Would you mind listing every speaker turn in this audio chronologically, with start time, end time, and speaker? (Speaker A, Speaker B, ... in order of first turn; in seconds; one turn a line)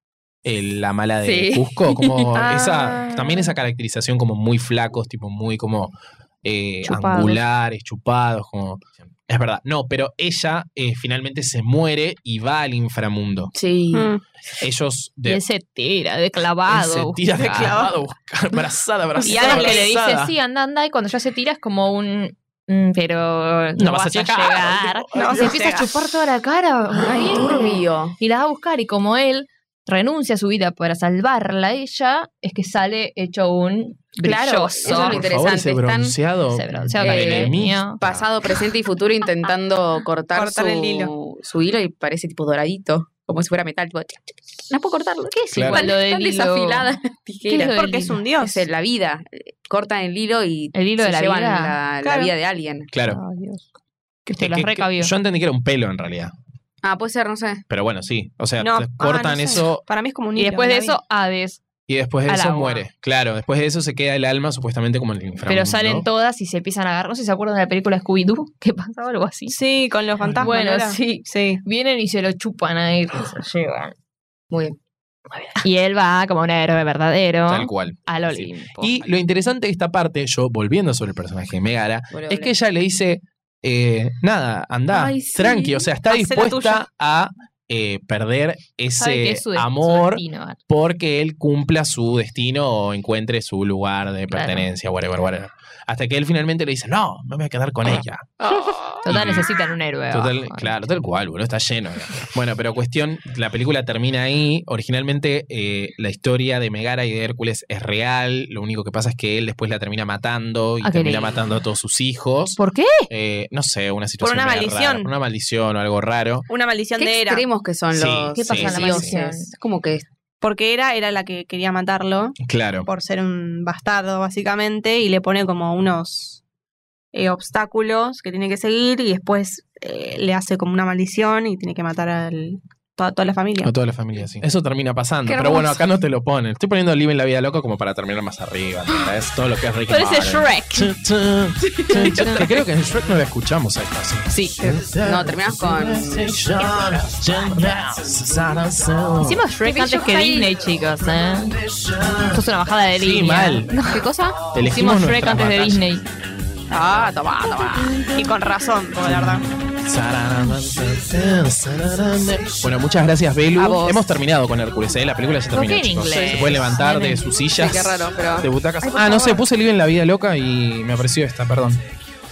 Speaker A: 0.4-13.5
Speaker B: 1.2-2.5
Speaker C: 2.4-3.4
Speaker D: 6.8-7.4
Speaker B: 13.5-14.1
Speaker C: 13.9-14.2
Speaker A: 14.6-15.4
Speaker D: 15.2-17.9
Speaker A: 16.7-20.3
Speaker C: 17.4-17.9
Speaker C: 19.2-19.8
Speaker D: 19.2-35.2
Speaker A: 23.8-25.9
Speaker C: 25.1-25.9
Speaker B: 27.0-28.1
Speaker B: 34.2-36.1
Speaker A: 34.9-38.3
Speaker D: 36.5-38.0
Speaker B: 37.0-47.8
Speaker C: 40.3-41.1
Speaker D: 45.3-48.3
Speaker A: 45.5-45.8
Speaker C: 47.6-48.6
Speaker B: 48.4-52.9
Speaker D: 50.7-51.8
Speaker C: 52.0-52.3
Speaker A: 52.9-53.2
Speaker D: 53.1-53.6
Speaker D: 54.2-55.1
Speaker A: 54.4-56.3
Speaker B: 56.8-57.6
Speaker A: 57.7-59.8
Speaker C: 58.6-61.0
Speaker D: 60.4-61.6
Speaker A: 61.9-66.1
Speaker D: 62.2-62.8
Speaker D: 65.5-69.6
Speaker C: 69.5-71.6
Speaker D: 70.4-73.9
Speaker B: 74.5-74.8
Speaker D: 75.4-79.0
Speaker A: 77.5-98.4
Speaker B: 82.1-82.5
Speaker B: 84.9-85.9
Speaker C: 86.1-86.8
Speaker D: 89.0-90.6
Speaker D: 94.3-94.7
Speaker B: 98.4-99.0
Speaker D: 99.0-100.8
Speaker A: 99.0-99.5
Speaker A: 100.1-116.5
Speaker D: 110.8-111.4
Speaker D: 112.6-113.1
Speaker C: 114.2-115.1
Speaker C: 116.5-117.5
Speaker B: 117.0-120.0
Speaker A: 117.9-119.1
Speaker D: 118.3-119.5
Speaker C: 120.4-122.3
Speaker A: 122.4-122.9
Speaker C: 122.9-126.4
Speaker C: 127.1-133.7
Speaker A: 133.6-149.4
Speaker D: 135.3-135.7
Speaker D: 139.9-140.9
Speaker B: 141.6-142.5
Speaker D: 141.9-142.6
Speaker D: 144.3-144.7
Speaker B: 145.0-146.7
Speaker D: 149.2-151.6
Speaker B: 149.6-150.6
Speaker A: 151.8-152.4
Speaker D: 152.2-156.0
Speaker A: 153.0-153.7
Speaker B: 153.9-154.4
Speaker A: 154.5-155.8
Speaker B: 156.7-158.0
Speaker C: 158.1-159.4
Speaker A: 159.0-171.8
Speaker B: 163.6-164.0
Speaker D: 165.5-167.2
Speaker B: 166.1-166.6
Speaker B: 167.5-168.5